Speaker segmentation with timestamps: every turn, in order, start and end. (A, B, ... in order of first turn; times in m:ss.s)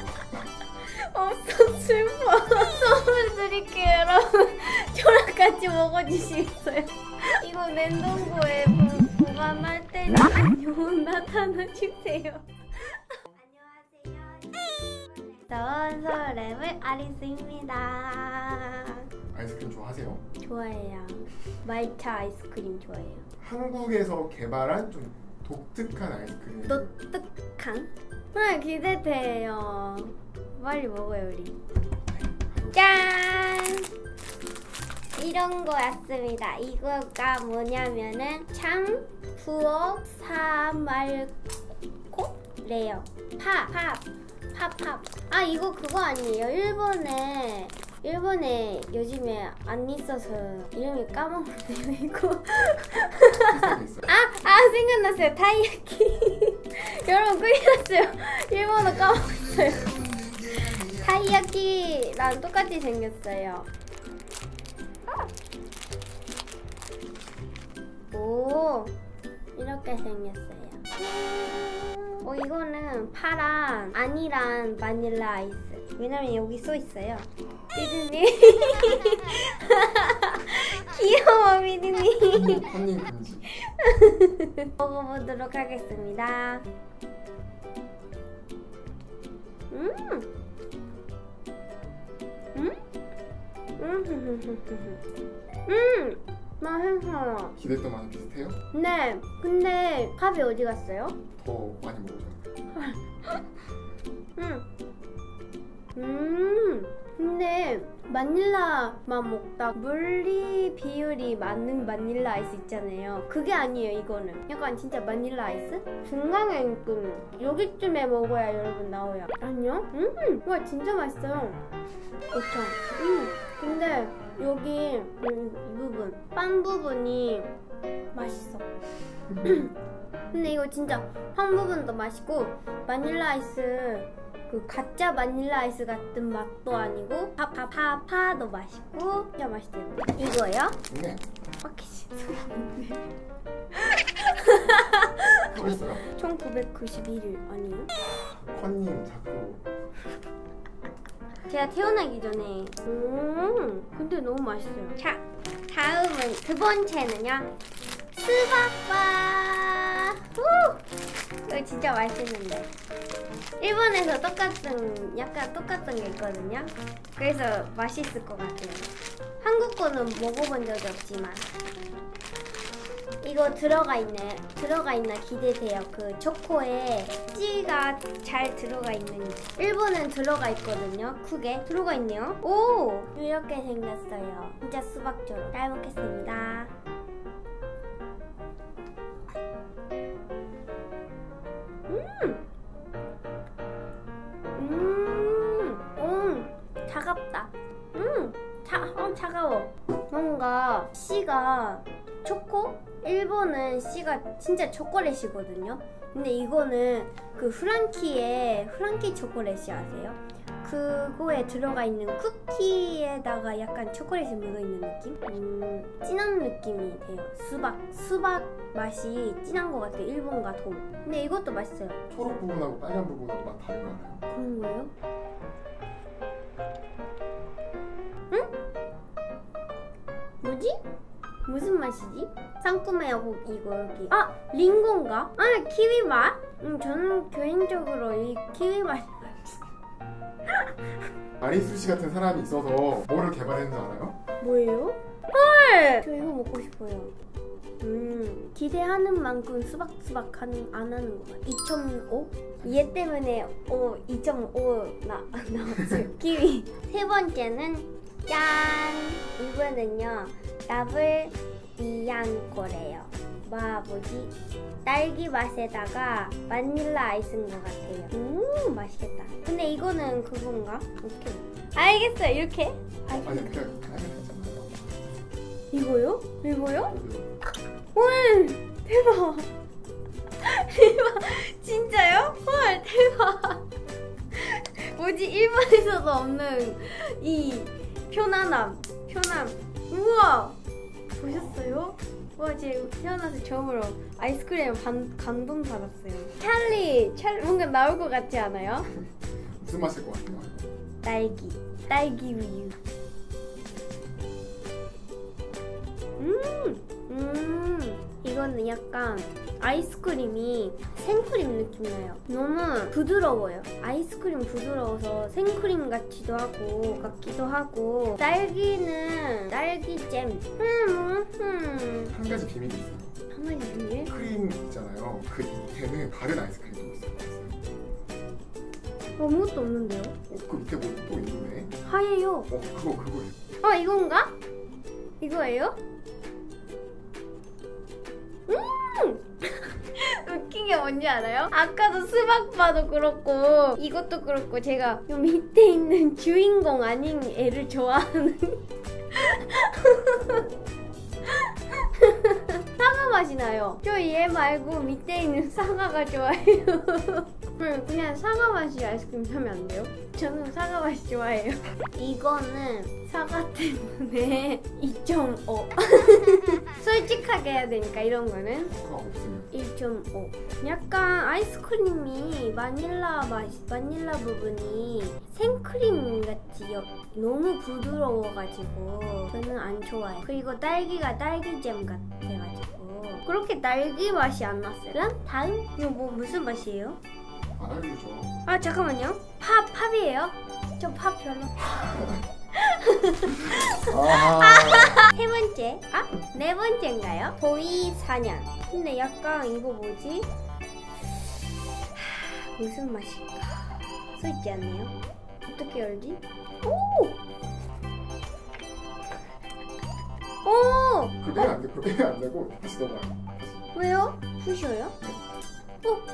0:00.8-0:19.0 A
0:19.3-0:20.2 B
0:20.4-0:23.2 A
0:23.4-0:26.9 B
0:26.7-0:31.6 A
0:32.1-0:32.8 B
0:32.7-0:33.9 A
0:35.2-0:41.4 A
0:42.1-1:03.7 A
0:53.5-0:54.1 B
1:08.1-1:08.9 A
1:09.6-1:22.7 A
1:22.3-1:23.5 B
1:23.5-1:26.7 A
1:29.7-1:30.3 A
1:33.8-1:35.0 A
1:35.7-1:37.6 A
1:37.6-1:38.6 B
1:38.7-1:41.2 A
1:41.4-1:42.4 B
1:42.7-1:43.4 A
1:44.4-1:44.6 A
1:45.9-2:01.6 A
2:02.3-2:07.5 A
2:08.1-2:08.6 A
2:09.4-2:09.7 A
2:10.3-2:20.8 A
2:20.9-2:21.3 B
2:21.6-2:23.1 A
2:23.7-2:27.9 A
2:25.5-2:26.1 B
2:28.0-2:29.6 B
2:31.5-2:37.5 A
2:38.1-2:40.8 A
2:41.4-2:42.7 A
2:43.6-2:48.9 A
2:49.4-2:51.5 A
2:53.2-3:06.7 A
3:11.9-3:12.4 A
3:14.5-3:42.0 A
3:42.1-3:44.2 B
3:44.3-3:44.9 A
3:50.4-3:50.8 A
3:51.4-3:59.6 A
4:01.4-4:04.2 B
4:04.4-4:07.1 A
4:07.8-4:24.3 A
4:24.8-4:33.6 A
4:33.1-4:34.9 B
4:35.7-4:37.0 A
4:36.8-4:37.3 B
4:37.9-4:39.5 A
4:40.4-4:43.6 A
4:44.3-4:50.6 A
4:51.1-4:58.9 A
4:59.6-5:00.7 B
5:01.0-5:02.8 A
5:06.2-5:22.1 A
5:22.1-5:23.1 B
5:23.3-5:24.1 A
5:24.1-5:27.6 B
5:29.2-5:30.1 A
5:30.3-5:31.8 B
5:31.8-5:32.5 A
5:32.5-5:33.4 B
5:33.6-5:34.3 A
5:35.2-5:35.8 A
5:38.5-5:50.5 A
5:51.2-6:08.7 A
6:08.7-6:09.5 B
6:09.5-6:27.0 A
6:27.6-6:28.3 B
6:28.4-6:31.6 A
6:31.8-6:32.2 B
6:32.5-6:40.3 A
6:33.5-6:35.1 B
6:41.9-6:44.9 A
6:45.5-6:47.1 A
6:50.4-6:51.2 A
6:51.2-6:53.7 B
6:53.7-6:55.0 A